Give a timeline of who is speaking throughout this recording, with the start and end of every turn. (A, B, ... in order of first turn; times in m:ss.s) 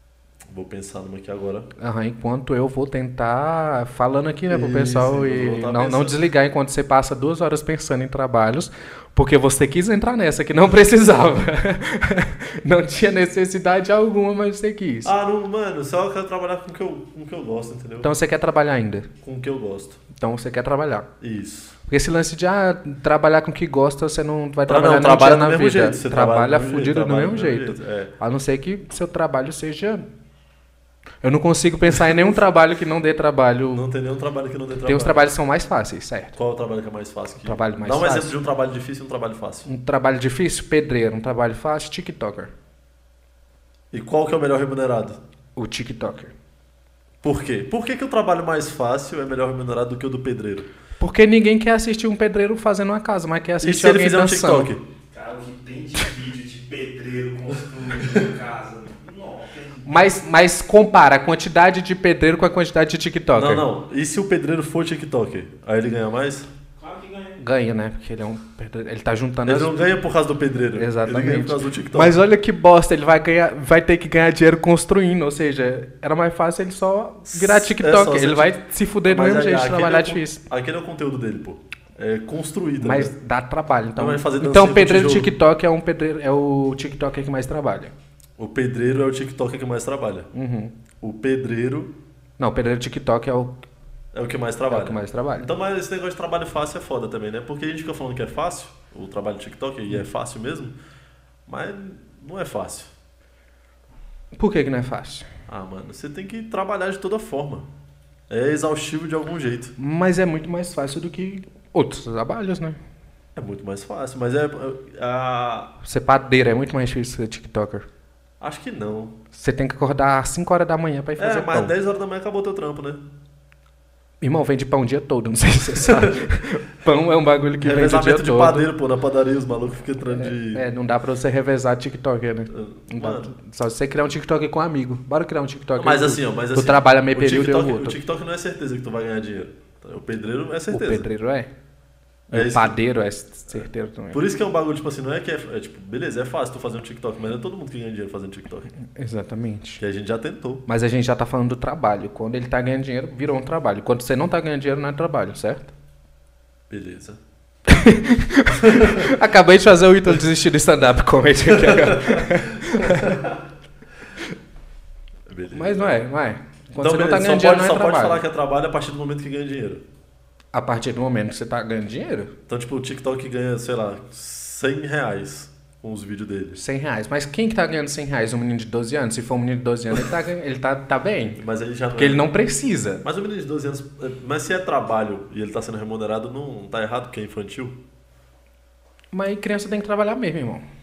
0:00.5-0:01.7 A
0:01.8-0:15.1 B
0:04.5-0:06.2 A
0:15.0-0:18.1 A
0:18.0-0:19.1 B
0:19.2-0:20.0 A
0:20.1-0:21.1 B
0:21.2-0:21.8 A
0:21.9-0:30.1 B
0:24.7-0:28.1 A
0:31.2-0:33.8 B
0:31.9-0:32.4 A
0:33.7-0:35.2 A
0:34.8-0:36.4 B
0:36.4-0:39.7 A
0:37.4-0:38.4 B
0:39.6-0:42.5 B
0:43.9-0:45.2 A
0:45.6-0:46.3 B
0:47.2-0:50.7 A
0:51.0-0:54.7 B
0:53.6-0:54.8 A
0:55.1-1:00.2 C
0:59.8-1:03.6 B
1:03.4-1:06.5 A
1:06.8-1:07.4 C
1:07.4-1:09.9 B
1:09.4-1:12.2 A
1:10.7-1:20.4 B
1:17.2-1:23.1 A
1:22.8-1:27.9 B
1:24.0-1:25.3 A
1:28.4-1:30.3 A
1:30.3-1:30.7 B
1:31.0-1:31.9 A
1:32.4-1:33.6 B
1:34.1-1:40.7 A
1:34.7-1:35.5 B
1:41.4-1:42.9 A
1:44.3-1:45.3 B
1:45.5-1:47.7 A
1:48.3-1:49.7 A
1:49.8-1:52.8 B
1:53.3-1:55.7 A
1:55.8-1:57.8 B
1:58.4-1:59.1 A
1:59.3-2:01.7 B
2:01.2-2:03.0 A
2:04.2-2:08.7 B
2:05.7-2:06.3 A
2:07.6-2:10.6 A
2:10.0-2:18.0 B
2:12.5-2:13.3 A
2:15.8-2:21.1 A
2:20.7-2:21.5 B
2:22.3-2:22.8 A
2:22.3-2:24.2 B
2:23.5-2:28.7 A
2:28.8-2:29.8 B
2:29.8-2:30.6 A
2:30.7-2:35.7 B
2:36.7-2:37.2 A
2:37.7-2:43.2 B
2:38.6-2:39.1 A
2:41.5-2:43.4 A
2:45.3-2:45.9 A
2:45.5-2:48.2 B
2:46.8-2:49.8 A
2:50.5-2:52.3 B
2:52.5-2:56.6 A
2:56.5-3:01.4 B
3:01.4-3:02.3 A
3:02.0-3:03.0 B
3:03.0-3:07.8 A
3:09.1-3:10.6 B